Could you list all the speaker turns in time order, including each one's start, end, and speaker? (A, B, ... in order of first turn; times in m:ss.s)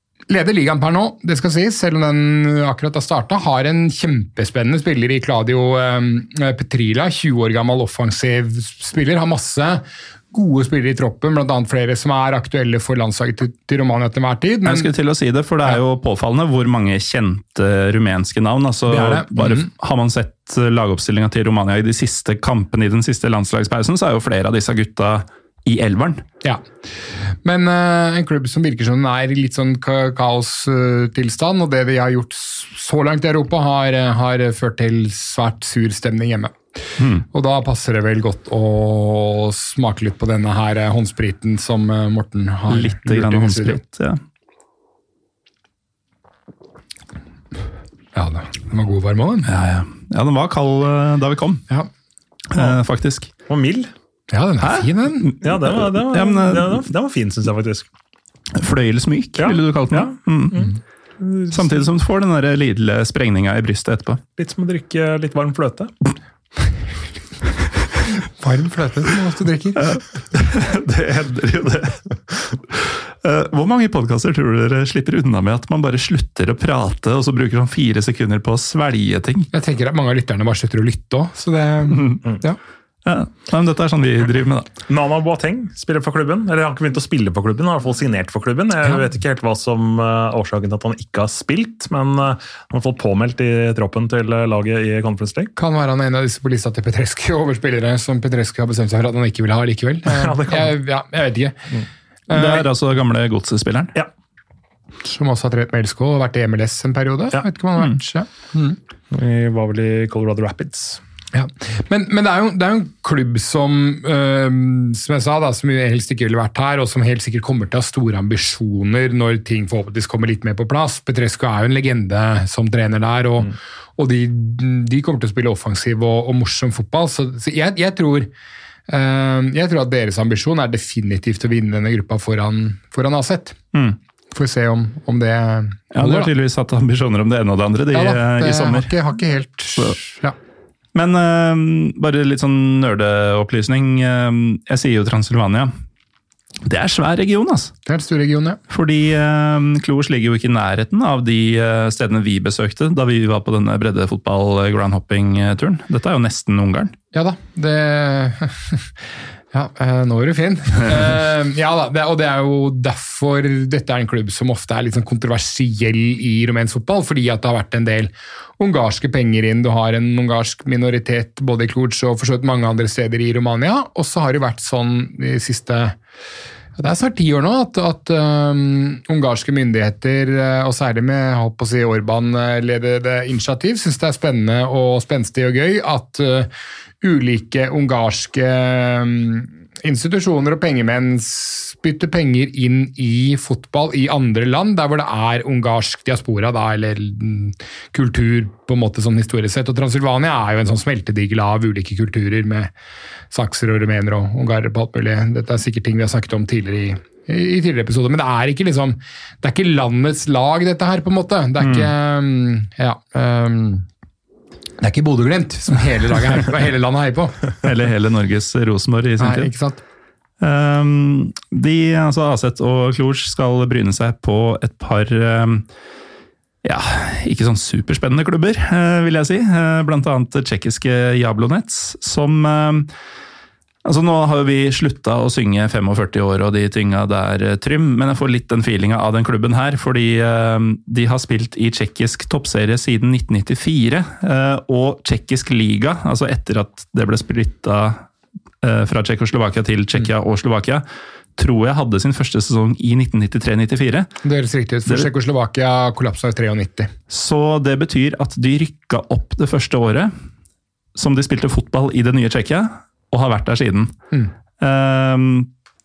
0:00.3-0:14.9 A
0:14.6-0:26.3 B
0:18.9-0:19.7 A
0:27.3-0:36.6 A
0:37.0-0:37.2 B
0:37.3-0:43.8 A
0:42.7-0:44.2 B
0:48.1-0:49.5 A
0:49.5-0:51.7 B
0:52.5-0:53.3 B
0:53.5-0:53.9 C
0:54.3-0:55.3 A
0:54.6-0:56.9 B
0:55.4-0:57.9 C
0:58.6-1:00.6 B
0:59.4-1:01.9 C
1:01.5-1:04.2 B
1:04.4-1:05.9 C
1:08.4-1:10.0 A
1:09.8-1:12.2 B
1:12.7-1:19.5 B
1:19.5-1:22.6 A
1:21.9-1:22.2 B
1:23.0-1:24.7 B
1:24.9-1:35.5 C
1:35.6-1:41.6 A
1:40.1-1:40.8 C
1:42.3-1:42.7 A
1:42.3-1:44.0 B
1:45.0-1:48.8 A
1:49.1-1:51.0 C
1:51.3-2:08.3 A
2:08.9-2:13.6 A
2:14.3-2:16.3 A
2:15.9-2:18.9 B
2:17.9-2:20.4 A
2:21.0-2:25.7 B
2:26.6-2:27.7 B
2:27.9-2:28.6 A
2:28.7-2:37.0 B
2:37.1-2:38.9 A
2:39.5-2:56.0 A
2:56.8-3:06.5 A
3:07.0-3:22.7 A
3:23.3-3:33.9 A
3:31.6-3:31.9 B
3:34.8-3:37.4 A
3:37.6-3:39.5 B
3:39.2-3:39.8 A
3:40.4-3:45.6 B
3:46.6-3:52.9 B
3:53.8-4:08.0 B
4:08.6-4:10.8 B
4:11.4-4:14.1 B
4:14.2-4:16.9 A
4:17.1-4:20.1 B
4:21.0-4:24.0 B
4:24.6-4:25.5 B